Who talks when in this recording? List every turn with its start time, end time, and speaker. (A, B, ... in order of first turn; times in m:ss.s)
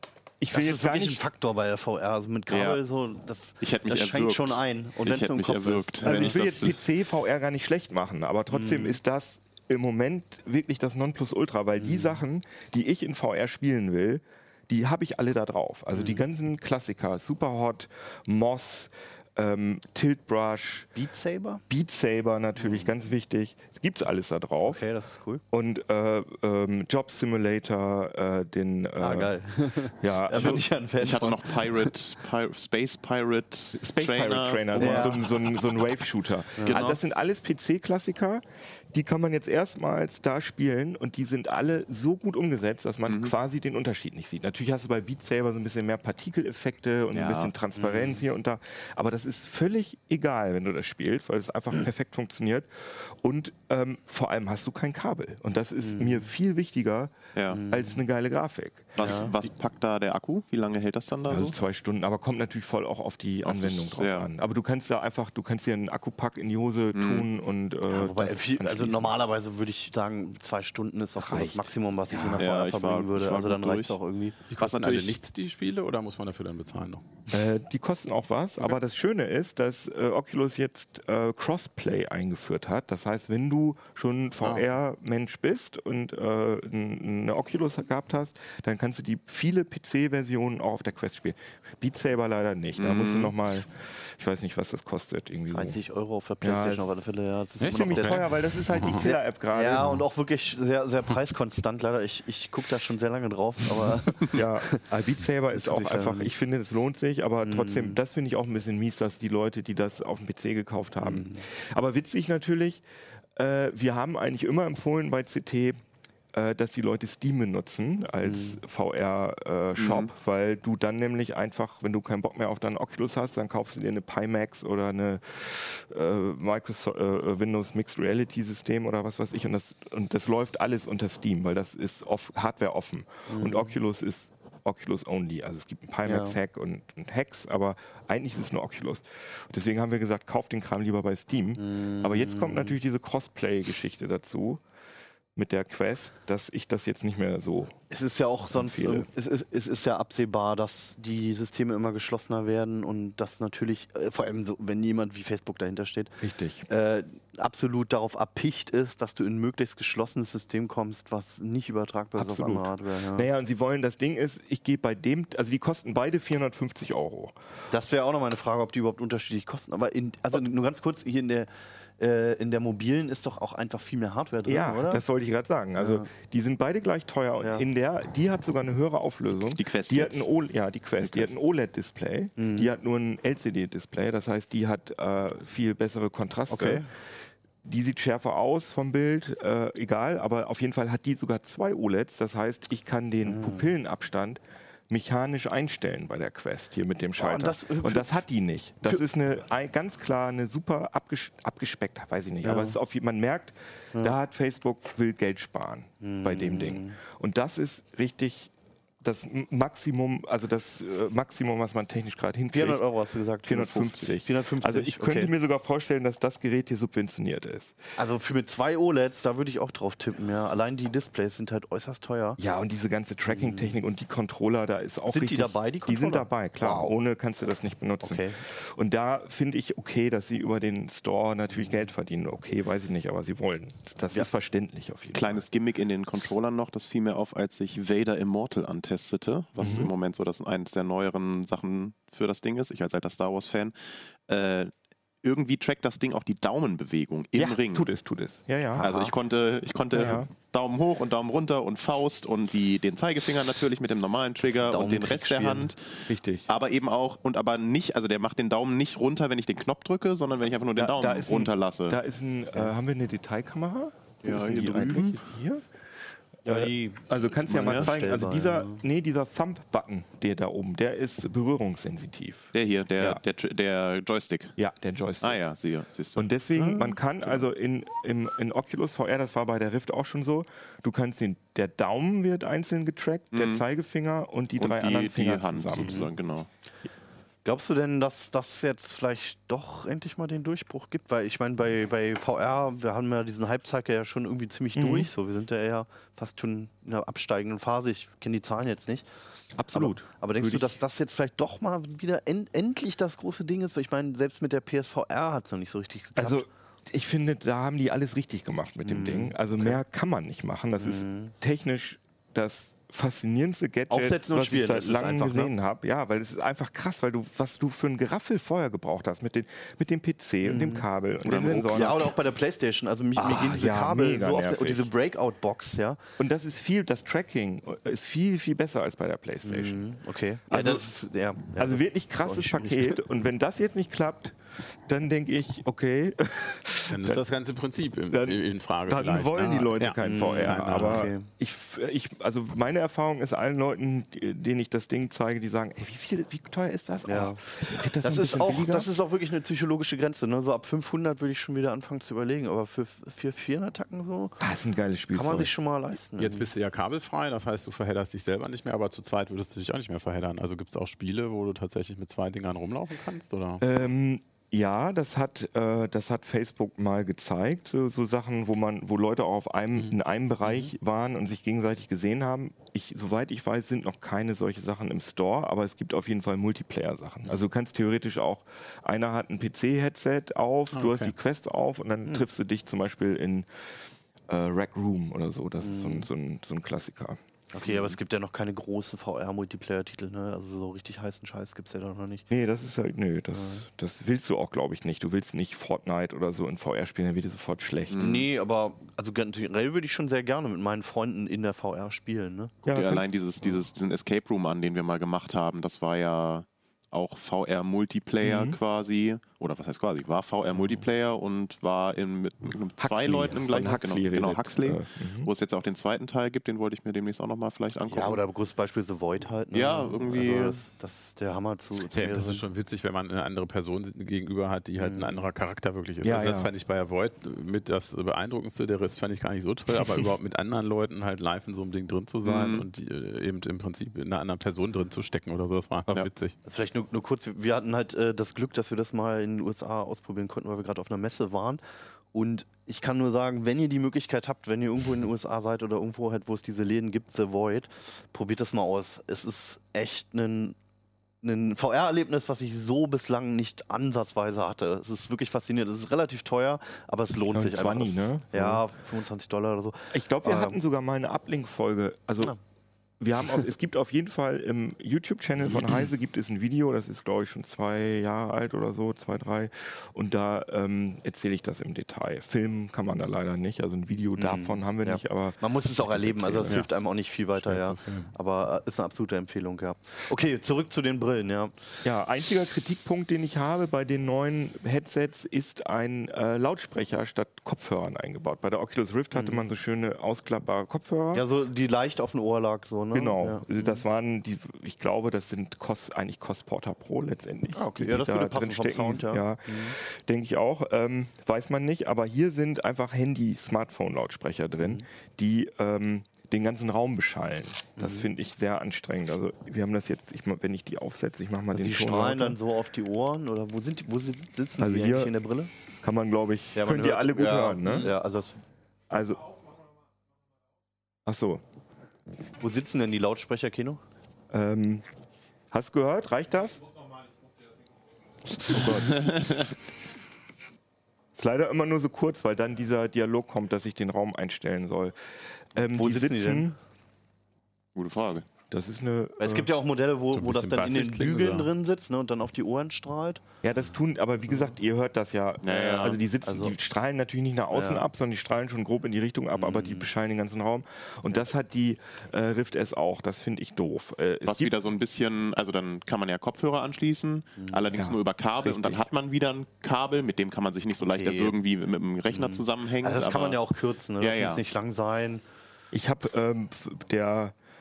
0:00.4-0:01.2 A
0:00.5-0:06.4 B
0:02.5-0:02.8 C
0:03.6-0:06.8 C
0:06.0-0:20.9 A
0:08.5-0:09.0 B
0:11.8-0:12.2 B
0:15.9-0:16.2 B
0:21.0-0:21.6 B
0:21.7-0:24.8 A
0:22.6-0:22.9 B
0:24.6-0:25.4 B
0:25.5-0:30.6 A
0:29.0-0:31.9 B
0:30.3-0:35.9 C
0:33.7-0:59.3 A
0:34.8-0:35.2 B
0:36.6-0:37.0 B
0:43.1-0:43.3 C
0:47.1-0:47.5 C
0:55.8-0:56.3 B
0:57.3-0:57.6 C
0:57.5-0:58.0 B
0:59.0-1:01.6 C
0:59.0-0:59.3 B
1:01.3-1:09.1 A
1:03.4-1:04.3 C
1:06.9-1:07.2 C
1:07.9-1:14.4 B
1:11.2-1:12.4 A
1:12.4-1:14.0 C
1:14.5-1:17.0 D
1:14.6-1:15.2 C
1:17.3-1:35.8 A
1:32.8-1:33.3 C
1:35.5-1:38.3 B
1:36.4-1:36.8 A
1:37.6-1:39.0 D
1:37.6-1:40.0 A
1:38.8-1:44.8 B
1:44.3-1:52.8 A
1:45.5-1:46.3 B
1:47.4-1:48.0 B
1:51.0-1:51.4 B
1:53.4-1:55.8 A
1:56.3-2:24.6 A
1:58.2-1:58.6 B
1:59.8-2:00.1 C
2:13.3-2:13.7 B
2:16.0-2:16.4 B
2:21.6-2:22.8 B
2:25.4-2:27.8 A
2:27.9-2:36.2 B
2:28.5-2:29.1 A
2:36.2-2:36.7 A
2:36.7-2:43.3 B
2:42.2-2:47.4 A
2:47.7-2:55.0 B
2:54.4-3:06.9 A
2:55.8-2:56.1 B
2:59.5-3:00.3 C
3:01.0-3:01.3 C
3:02.4-3:02.7 B
3:06.5-3:06.9 B
3:07.6-3:28.5 A
3:13.3-3:13.7 B
3:17.2-3:18.2 B
3:22.4-3:22.8 B
3:26.0-3:27.0 B
3:29.0-3:32.8 A
3:32.5-3:35.3 B
3:33.4-3:37.8 A
3:38.0-3:42.4 B
3:42.4-3:55.4 A
3:43.3-3:43.8 B
3:45.1-3:46.9 B
3:48.0-3:48.4 B
3:55.1-4:04.7 C
3:59.6-3:59.9 A
4:05.2-4:07.9 C
4:07.3-4:08.9 A
4:08.8-4:22.0 C
4:08.8-4:09.1 B
4:09.9-4:10.3 A
4:14.4-4:15.7 B
4:16.1-4:16.5 A
4:20.7-4:25.6 A
4:24.2-4:25.2 C
4:26.4-4:33.2 A
4:26.4-4:28.8 B
4:27.6-4:27.9 C
4:32.5-4:34.5 C
4:34.6-4:35.4 A
4:35.2-4:37.5 C
4:36.2-4:46.1 A
4:43.3-4:43.6 C
4:44.6-4:46.5 C
4:45.8-4:46.1 B
4:47.4-4:59.1 B
4:54.7-4:55.1 A
4:59.5-5:00.8 A
4:59.7-5:06.5 B
5:06.2-5:22.0 A
5:08.8-5:09.7 B
5:10.8-5:11.3 B
5:13.9-5:15.5 B
5:20.4-5:20.8 B
5:21.2-5:22.1 C
5:21.7-5:26.0 B
5:23.2-5:24.9 A
5:26.2-5:29.8 A
5:29.4-5:33.0 B
5:30.5-5:30.9 A
5:31.4-5:37.2 A
5:36.9-5:41.1 D
5:38.1-5:48.9 A
5:40.0-5:41.3 B
5:47.1-5:47.4 B
5:48.0-5:54.4 B
5:54.4-5:55.5 A
5:55.1-5:56.5 B
5:56.2-6:03.6 D
6:03.6-6:23.5 A
6:20.7-6:21.1 D
6:24.3-6:27.2 A
6:25.6-6:26.1 B
6:27.5-6:32.2 B
6:32.3-6:38.0 A
6:33.3-6:33.6 B
6:37.9-6:38.3 C
6:38.0-6:42.5 B
6:42.6-6:43.1 A
6:42.7-6:58.2 C
6:48.2-6:48.6 A
6:52.8-6:55.3 A
6:57.9-7:02.4 B
6:59.5-7:00.6 C
7:01.9-7:16.3 D
7:04.8-7:05.3 B
7:06.0-7:06.5 A
7:12.2-7:12.7 C
7:16.4-7:21.6 B
7:22.1-7:30.6 B
7:31.2-7:40.6 B
7:37.3-7:38.6 A
7:39.9-7:42.3 A
7:43.0-7:56.6 A
7:54.2-8:01.8 B
7:57.3-7:58.1 D
8:01.8-8:11.2 A
8:09.1-8:09.4 B
8:11.1-8:13.8 B
8:12.9-8:32.4 A
8:17.5-8:19.8 B
8:24.6-8:24.8 B
8:27.8-8:28.1 B
8:31.5-8:35.5 B
8:34.6-8:35.1 A
8:35.8-8:37.9 A
8:36.5-8:38.4 B
8:38.9-8:39.4 A
8:41.0-8:41.4 A
8:42.4-8:43.8 B
8:44.3-8:44.8 A
8:45.5-8:46.7 A
8:48.5-8:49.1 A
8:48.8-8:49.4 C
8:51.1-8:56.6 A
8:55.6-8:56.5 B
8:57.7-8:58.2 C
8:58.5-8:59.5 A
8:59.2-9:03.2 B
9:00.1-9:01.5 D
9:03.4-9:14.5 A
9:05.4-9:06.0 C
9:05.5-9:06.5 B
9:07.5-9:07.8 B
9:09.3-9:09.9 B
9:14.2-9:23.4 C
9:17.4-9:17.6 B
9:17.7-9:18.9 A
9:20.8-9:21.4 B
9:22.1-9:25.2 B
9:24.0-9:24.4 C
9:25.7-9:27.3 A